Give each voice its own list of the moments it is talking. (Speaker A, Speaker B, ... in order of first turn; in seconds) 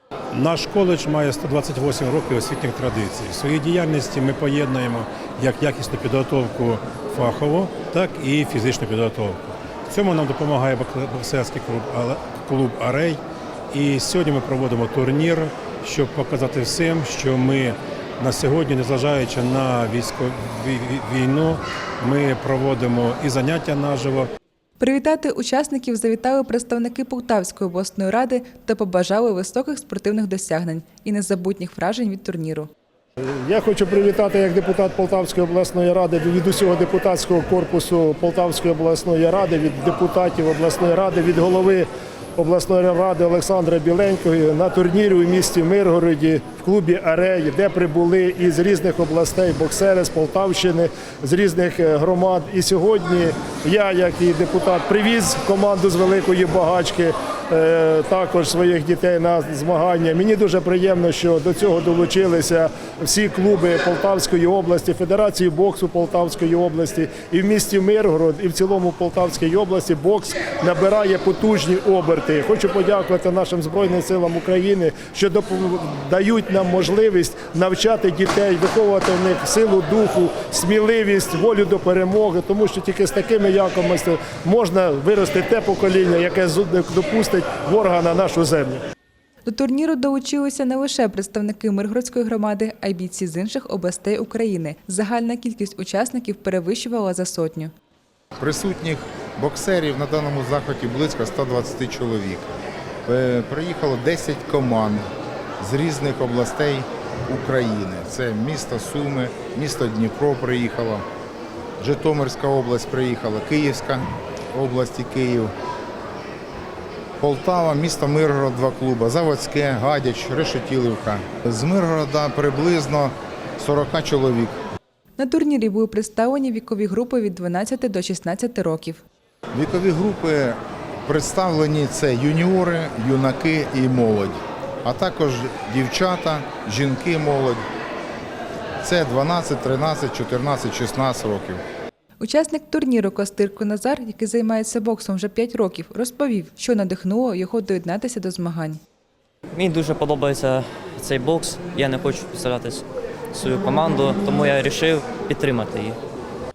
Speaker A: 0.3-13.2, 13.7-24.3
Speaker B: 24.8-32.7, 89.5-97.7, 125.2-129.0, 142.2-148.8
Speaker C: 33.2-88.8
Speaker D: 98.4-105.0, 105.6-111.0, 111.8-115.5, 117.2-124.6, 129.5-137.6, 138.8-141.6
Speaker E: 149.5-156.0